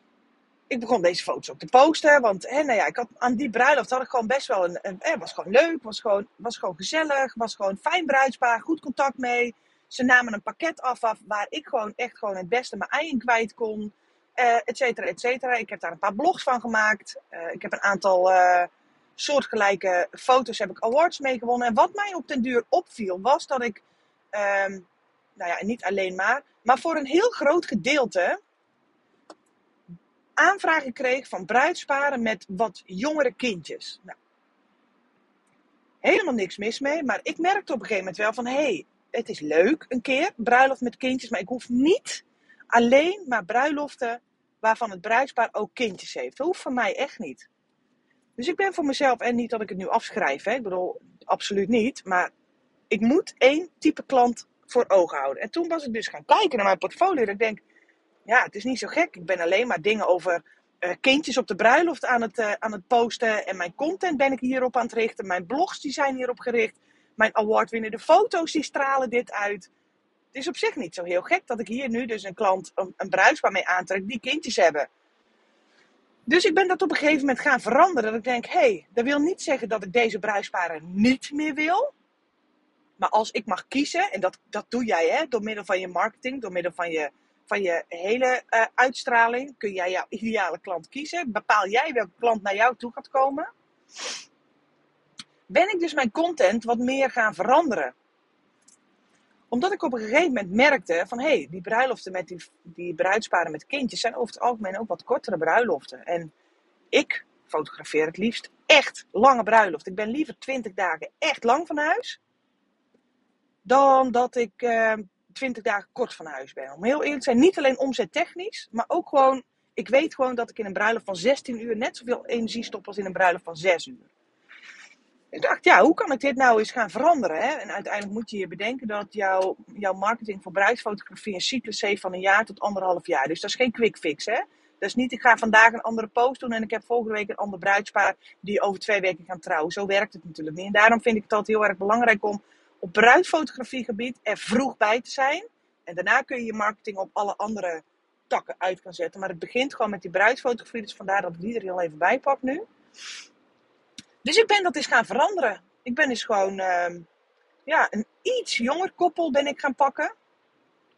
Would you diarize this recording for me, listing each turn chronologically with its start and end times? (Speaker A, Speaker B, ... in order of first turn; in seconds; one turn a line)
Speaker A: 0.7-28.4
Speaker A: 30.4-34.1
Speaker A: 36.0-47.5
Speaker A: 48.4-52.3
Speaker A: 52.9-57.6
Speaker A: 58.2-69.7
Speaker A: 70.3-74.9
Speaker A: 76.3-81.9
Speaker A: 83.0-93.5
Speaker A: 95.5-97.9
Speaker A: 99.5-106.3
Speaker A: 106.9-112.2
Speaker A: 113.6-124.1
Speaker A: 125.3-152.7
Speaker A: 154.2-157.1
Speaker A: 157.7-160.1